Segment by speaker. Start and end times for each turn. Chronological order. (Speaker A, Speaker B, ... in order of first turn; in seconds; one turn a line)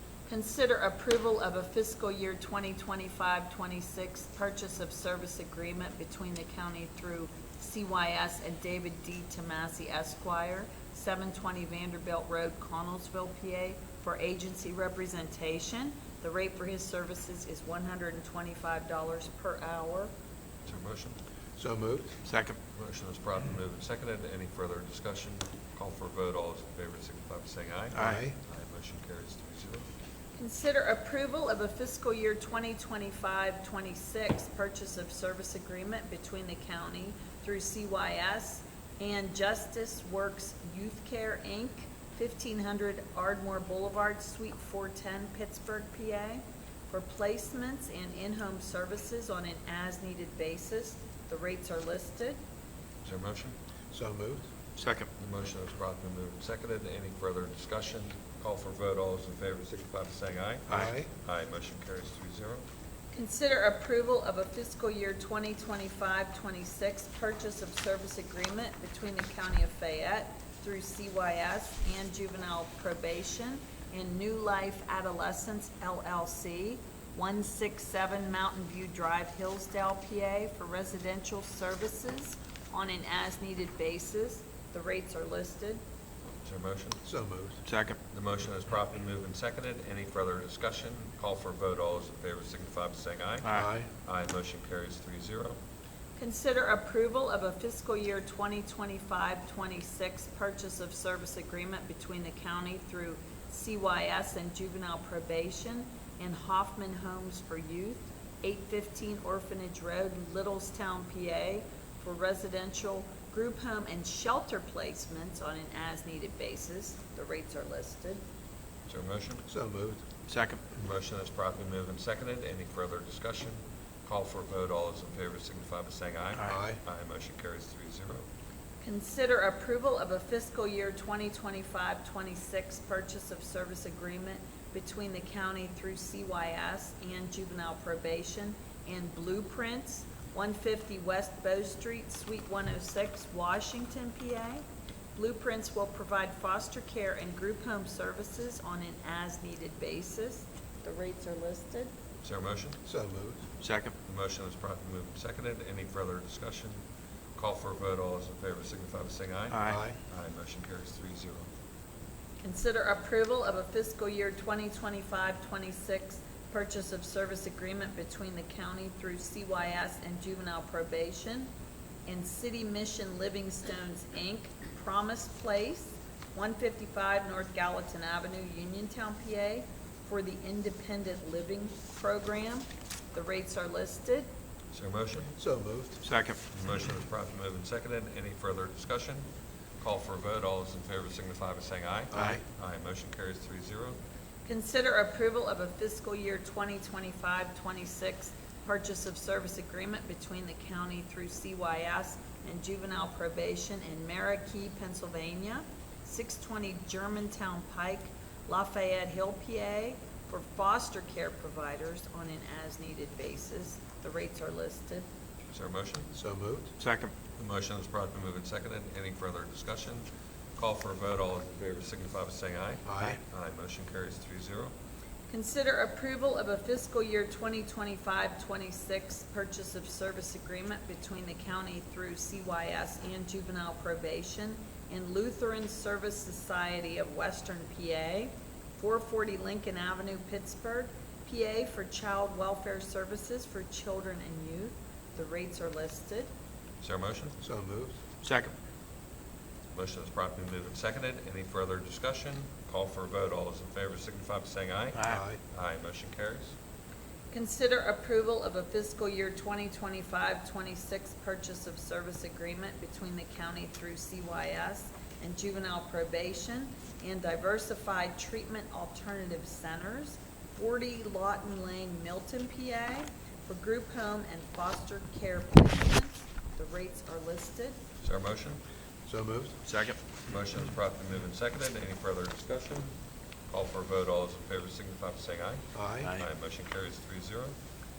Speaker A: 0.3-20.1
Speaker B: 20.6-21.1
Speaker C: 21.6-22.1
Speaker D: 22.2-22.6
Speaker B: 22.7-29.9
Speaker D: 27.9-28.2
Speaker C: 27.9-28.3
Speaker A: 30.4-52.4
Speaker B: 53.0-53.5
Speaker C: 53.9-54.4
Speaker D: 54.8-55.1
Speaker B: 55.2-62.6
Speaker C: 60.7-61.1
Speaker A: 63.1-85.8
Speaker B: 86.4-87.0
Speaker C: 87.0-87.6
Speaker D: 87.6-88.0
Speaker B: 88.1-95.6
Speaker D: 93.4-93.7
Speaker C: 93.5-93.9
Speaker A: 96.2-118.2
Speaker B: 118.9-119.4
Speaker C: 119.5-120.0
Speaker D: 120.3-120.6
Speaker B: 120.7-128.2
Speaker C: 126.5-126.8
Speaker A: 128.8-144.6
Speaker A: 145.2-151.9
Speaker B: 152.2-152.8
Speaker C: 152.8-153.4
Speaker D: 153.6-153.9
Speaker B: 154.0-156.8
Speaker B: 157.4-161.5
Speaker D: 159.5-159.8
Speaker C: 159.7-159.9
Speaker A: 162.4-171.5
Speaker A: 172.1-184.3
Speaker B: 184.7-185.3
Speaker C: 185.4-186.0
Speaker D: 186.0-186.4
Speaker B: 186.5-189.2
Speaker B: 189.8-193.9
Speaker C: 192.1-192.4
Speaker A: 194.4-215.0
Speaker B: 215.5-216.1
Speaker C: 216.1-216.7
Speaker D: 216.8-217.1
Speaker B: 217.3-220.0
Speaker B: 220.6-224.7
Speaker C: 222.8-223.2
Speaker A: 225.3-246.3
Speaker B: 246.8-247.3
Speaker C: 247.4-247.9
Speaker D: 248.2-248.5
Speaker B: 249.7-256.5
Speaker C: 255.0-255.4
Speaker A: 257.3-277.8
Speaker B: 278.0-278.6
Speaker C: 279.1-279.6
Speaker D: 279.6-280.0
Speaker B: 280.3-282.9
Speaker B: 283.5-287.5
Speaker C: 285.7-286.1